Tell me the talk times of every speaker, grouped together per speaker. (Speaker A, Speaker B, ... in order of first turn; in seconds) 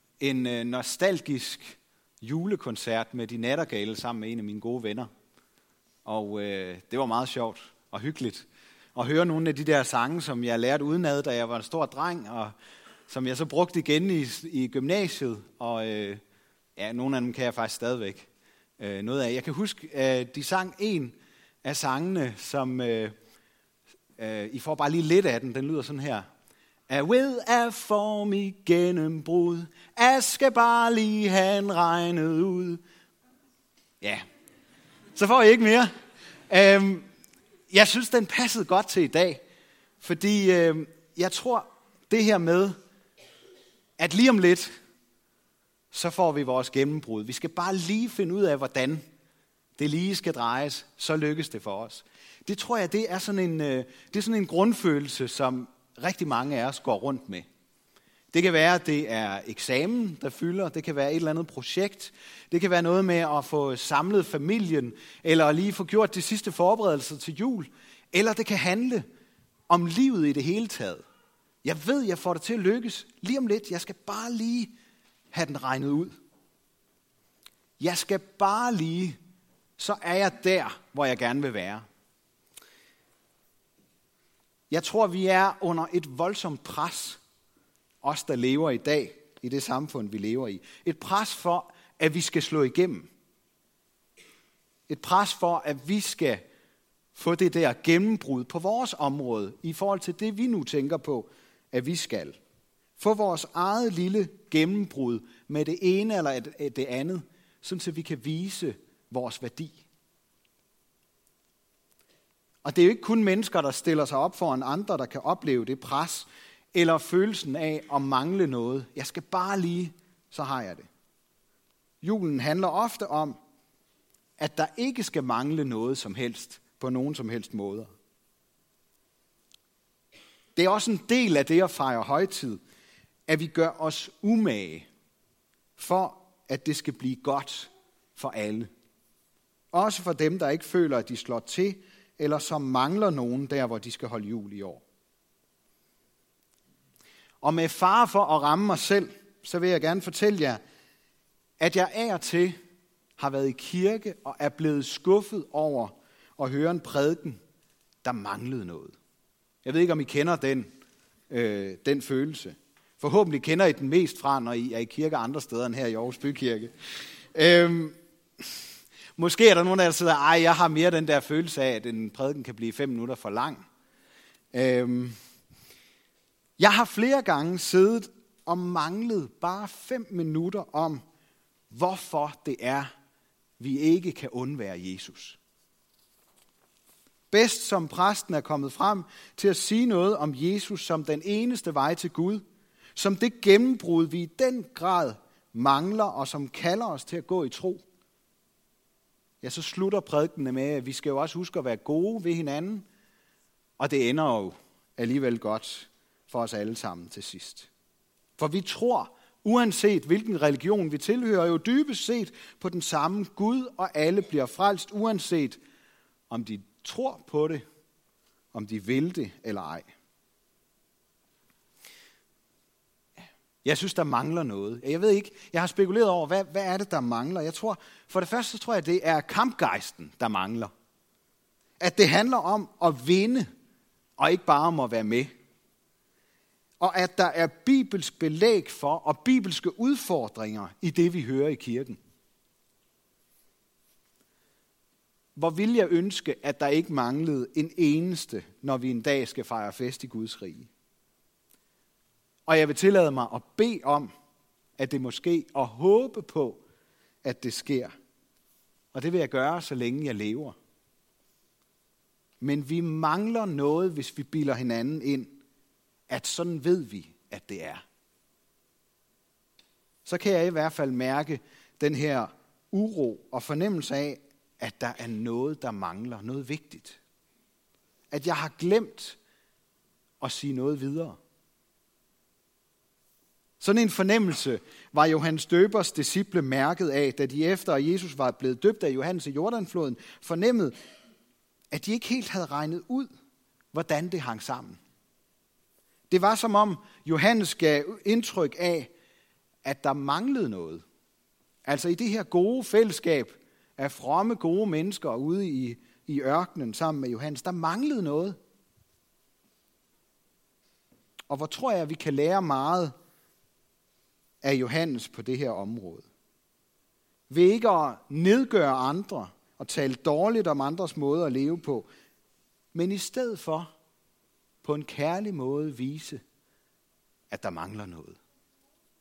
Speaker A: 0.2-5.1, 6.0-12.5, 13.1-16.2, 16.8-18.3, 18.8-23.1, 24.2-26.2, 26.9-32.8, 35.1-35.9, 36.5-37.0, 37.7-39.4, 40.0-42.8, 44.0-44.7, 45.9-49.0, 49.8-57.4, 58.3-69.0, 69.7-71.0, 71.6-74.7, 75.3-76.1, 77.8-79.2, 79.8-81.8, 84.7-87.2, 88.0-93.1, 94.9-96.4, 97.1-102.4, 103.0-109.8, 112.6-120.9, 122.0-123.4, 124.4-127.9, 130.6-132.6, 133.3-134.9, 135.8-138.7, 139.7-144.8, 147.4-150.6, 151.6-152.6, 153.2-157.4, 158.0-158.9, 159.6-160.7, 161.3-166.7, 167.3-167.9, 169.2-173.6, 174.5-175.2, 176.6-181.0, 181.7-182.9, 183.6-185.4, 187.3-192.4, 192.9-197.8, 199.4-202.8, 203.8-207.7, 208.4-215.6, 216.3-217.6, 218.5-219.9, 223.6-230.7, 231.8-233.5, 234.2-235.3, 236.8-242.0, 245.3-250.7, 252.5-254.1, 254.8-256.6, 257.2-257.9, 258.9-260.5, 262.4-265.4, 266.1-267.8, 270.0-277.0, 278.1-279.2, 280.2-281.2, 283.6-290.8, 291.7-293.1, 293.7-294.8, 296.1-298.9, 299.6-300.8, 301.6-308.4, 311.3-312.9, 314.4-316.0, 317.3-321.9, 322.7-323.7, 324.6-326.2, 327.3-328.2